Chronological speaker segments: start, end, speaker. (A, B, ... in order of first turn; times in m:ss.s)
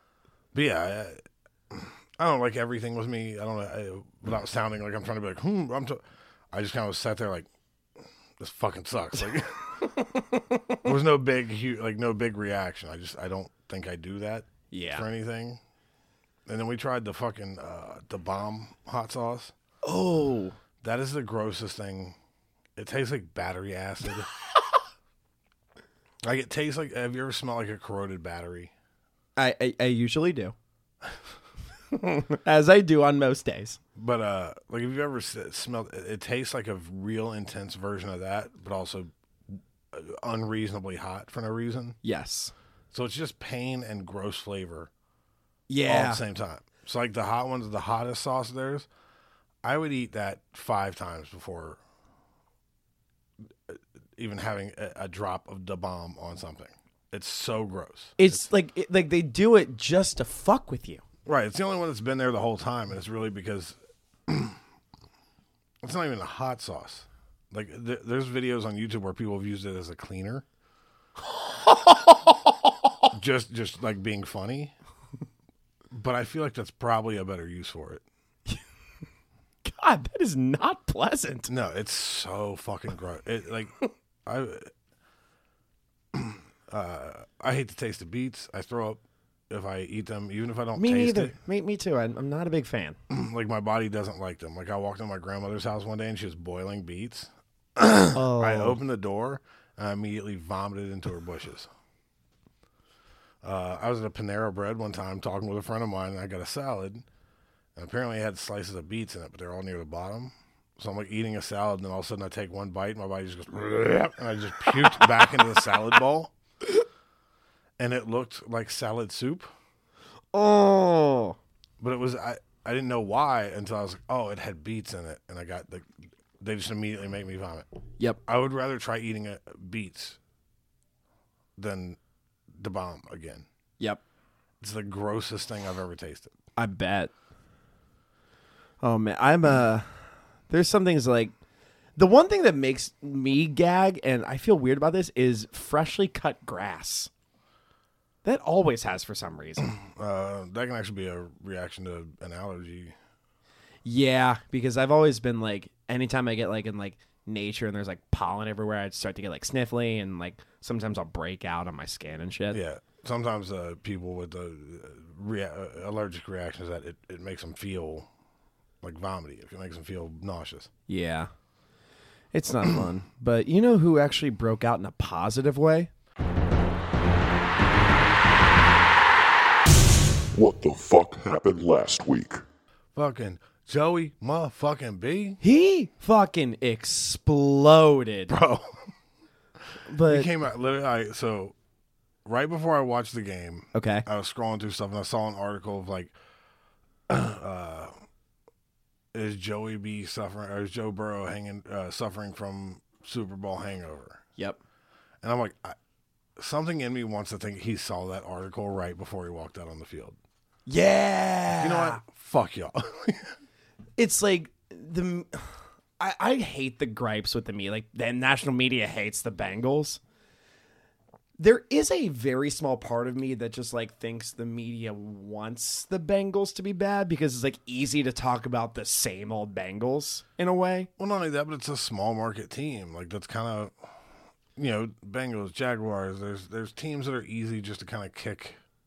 0:00.5-0:07.5 A
0:08.4-0:09.8 A
0:10.1-0:10.6 B
0:10.8-0:15.6 A
0:14.7-0:15.0 B
0:16.4-0:19.5 A
0:19.8-0:20.6 B
0:20.8-0:22.2 A
0:22.8-0:24.3 A
0:26.2-0:28.7 A
0:29.4-0:30.5 B
0:31.9-0:33.8 B
0:34.0-0:42.0 A
0:42.0-0:42.5 B
0:42.9-0:44.9 A
0:45.7-0:46.2 B
0:45.8-0:48.9 A
0:49.6-0:51.8 A
0:53.7-0:58.4 A
0:58.2-1:01.0 B
1:01.2-1:04.6 A
1:05.8-1:10.4 A
1:11.4-1:12.6 B
1:13.1-1:14.7 A
1:15.9-1:18.0 A
1:19.6-1:21.5 B
1:21.5-1:23.7 A
1:24.2-1:24.7 A
1:26.1-1:31.4 A
1:30.8-1:33.0 B
1:33.1-1:41.7 A
1:38.1-1:38.8 B
1:43.4-1:47.0 A
1:47.8-1:56.3 A
1:57.8-1:59.5 A
2:00.3-2:01.4 B
2:01.8-2:07.6 A
2:08.2-2:10.2 A
2:11.6-2:12.0 A
2:12.5-2:13.4 A
2:14.6-2:16.3 A
2:16.6-2:17.1 B
2:18.8-2:21.3 B
2:22.0-2:27.1 B
2:28.2-2:29.7 B
2:29.6-2:32.9 A
2:33.8-2:42.6 B
2:42.5-2:48.1 A
2:48.8-2:50.7 A
2:50.9-2:51.3 B
2:52.3-2:55.9 B
3:00.3-3:02.4 C
3:02.9-3:05.4 A
3:05.4-3:08.3 B
3:08.3-3:08.8 A
3:09.9-3:10.3 B
3:10.0-3:11.5 A
3:12.2-3:16.1 A
3:13.7-3:14.0 B
3:17.1-3:17.9 A
3:19.1-3:24.2 A
3:25.2-3:25.8 A
3:26.4-3:30.2 A
3:30.7-3:32.0 B
3:31.6-3:33.3 A
3:34.0-3:40.0 B
3:41.4-3:50.9 B
3:51.0-3:53.9 A
3:54.6-3:58.6 A